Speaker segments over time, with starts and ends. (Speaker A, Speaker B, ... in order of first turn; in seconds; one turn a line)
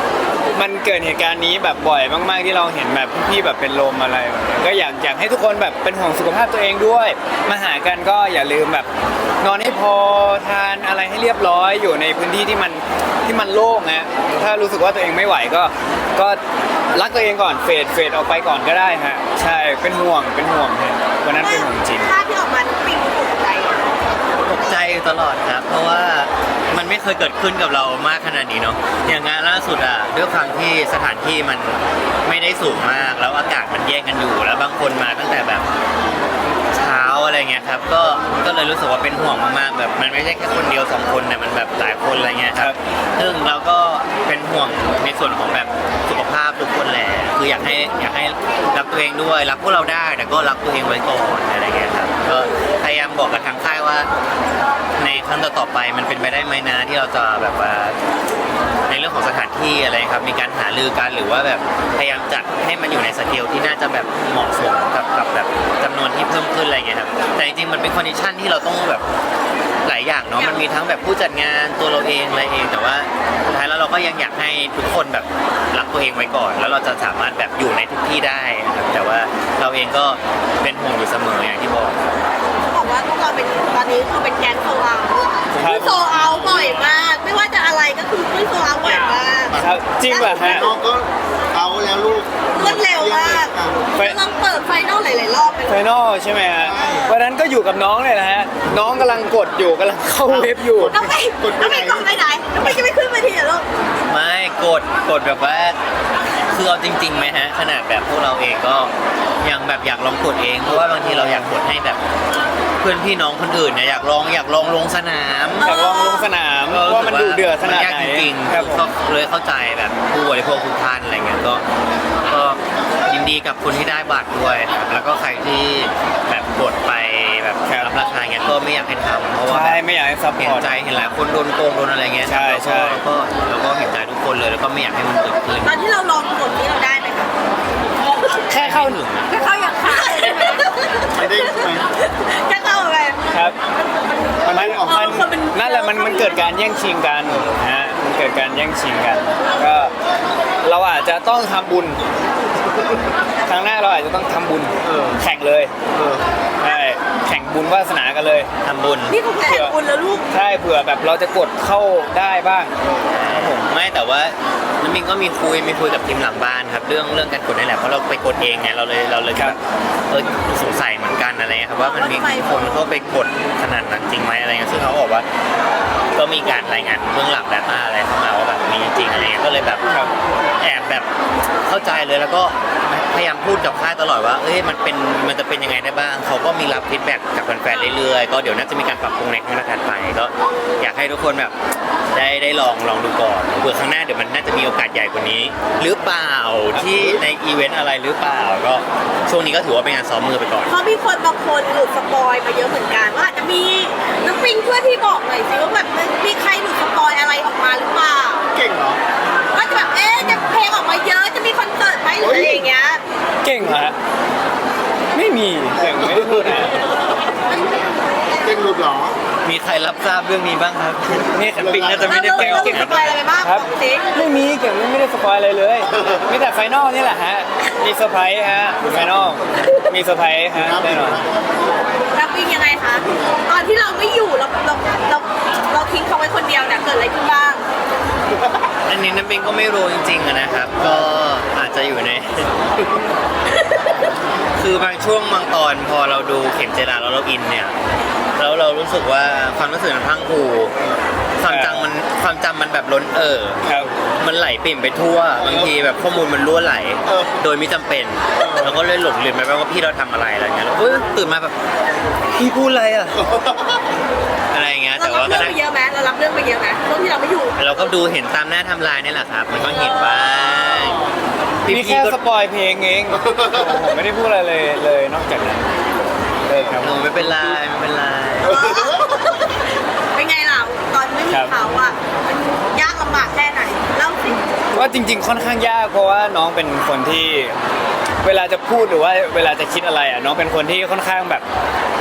Speaker A: 0.5-8.9
Speaker A: 9.4-16.4
Speaker A: 16.9-22.1
Speaker B: 21.4-24.1
Speaker C: 24.4-35.7
Speaker C: 36.7-54.1
Speaker C: 55.0-58.0
Speaker C: 58.9-69.0
Speaker C: 69.8-82.1
Speaker B: 82.6-90.7
Speaker D: 85.5-86.6
Speaker A: 85.6-85.9
Speaker D: 89.5-93.8
Speaker A: 89.6-90.7
Speaker B: 92.5-95.8
Speaker A: 95.7-101.0
Speaker D: 96.6-97.2
Speaker D: 100.3-102.2
Speaker B: 100.9-103.7
Speaker C: 104.1-105.8
Speaker C: 106.5-112.0
Speaker A: 110.7-111.5
Speaker C: 112.8-115.9
Speaker B: 115.6-116.3
Speaker A: 115.6-118.9
Speaker C: 116.7-121.6
Speaker C: 122.3-129.8
Speaker A: 127.7-127.9
Speaker A: 129.5-130.8
Speaker C: 130.4-135.8
Speaker A: 132.3-133.0
Speaker B: 135.6-137.3
Speaker A: 138.5-139.0
Speaker C: 138.5-139.3
Speaker B: 139.3-143.2
Speaker D: 141.1-141.9
Speaker A: 143.3-143.6
Speaker B: 144.4-146.6
Speaker D: 144.4-145.1
Speaker A: 144.5-149.9
Speaker A: 150.6-152.0
Speaker A: 153.5-155.7
Speaker D: 154.8-155.2
Speaker D: 155.9-156.2
Speaker A: 156.6-158.5
Speaker C: 158.6-159.2
Speaker B: 159.1-160.3
Speaker A: 159.4-159.8
Speaker A: 160.3-162.7
Speaker C: 163.0-169.6
Speaker A: 163.3-163.7
Speaker C: 170.1-175.3
Speaker B: 171.8-172.9
Speaker C: 176.1-179.9
Speaker C: 180.6-181.1
Speaker C: 181.7-191.5
Speaker B: 187.7-188.1
Speaker C: 192.1-200.7
Speaker B: 200.7-208.5
Speaker D: 208.5-209.0
Speaker B: 209.5-213.0
Speaker D: 212.2-212.7
Speaker A: 213.4-213.9
Speaker A: 215.1-216.8
Speaker D: 216.0-216.3
Speaker B: 217.5-217.9
Speaker D: 218.4-219.2
Speaker C: 219.4-223.2
Speaker A: 221.3-231.2
Speaker D: 221.6-222.2
Speaker B: 222.1-224.1
Speaker D: 230.6-231.8
Speaker B: 232.1-237.6
Speaker C: 238.9-242.6
Speaker B: 243.5-244.1
Speaker C: 244.6-247.8
Speaker C: 248.4-250.7
Speaker C: 251.4-253.7
Speaker A: 251.5-251.9
Speaker A: 253.6-253.9
Speaker C: 254.2-261.6
Speaker D: 255.4-255.7
Speaker D: 257.1-257.4
Speaker D: 258.4-258.7
Speaker C: 262.4-263.2
Speaker D: 263.1-263.8
Speaker C: 264.5-265.6
Speaker B: 265.0-267.9
Speaker C: 267.6-271.1
Speaker B: 269.7-270.7
Speaker C: 271.6-272.2
Speaker A: 271.7-275.7
Speaker D: 273.3-273.7
Speaker A: 276.5-277.6
Speaker D: 276.5-276.8
Speaker C: 276.8-278.6
Speaker D: 278.4-279.1
Speaker B: 278.5-279.6
Speaker B: 280.1-284.5
Speaker A: 281.3-281.6
Speaker A: 284.7-287.6
Speaker A: 288.2-291.4